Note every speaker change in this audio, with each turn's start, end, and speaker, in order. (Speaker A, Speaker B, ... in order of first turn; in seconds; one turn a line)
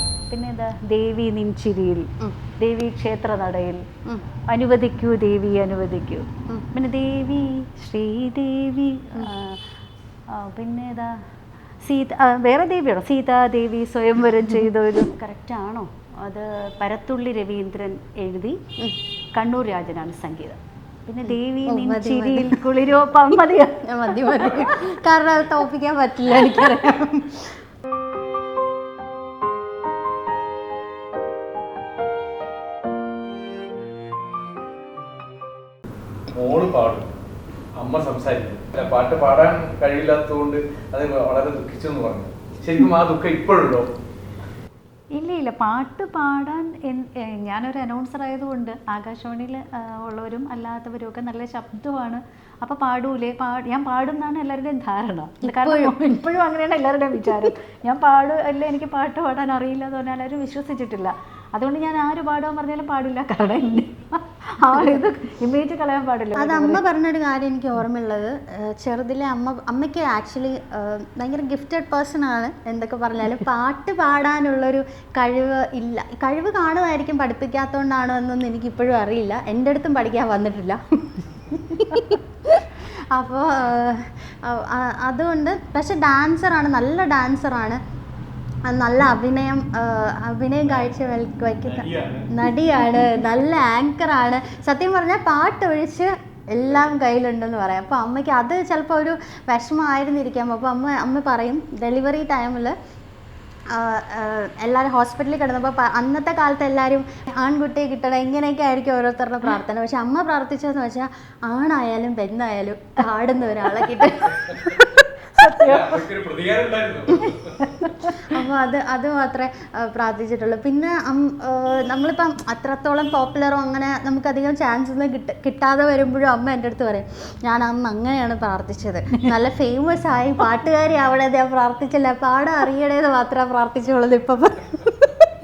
Speaker A: 0.3-2.1
Speaker A: 2.6-3.8
Speaker A: 4.5-9.6
Speaker A: 10.3-11.1
Speaker A: 11.8-18.6
Speaker A: 19.3-24.7
Speaker B: 21.2-22.6
Speaker B: 23.9-27.6
Speaker C: 36.3-37.1
Speaker C: 37.8-43.9
Speaker A: 45.1-66.8
Speaker B: 55.4-56.1
Speaker B: 66.4-87.8
Speaker B: 88.7-102.7
Speaker C: 91.7-92.3
Speaker B: 103.7-115.0
Speaker C: 114.4-114.7
Speaker A: 115.3-116.0
Speaker C: 115.6-117.7
Speaker A: 117.3-118.2
Speaker B: 118.0-135.3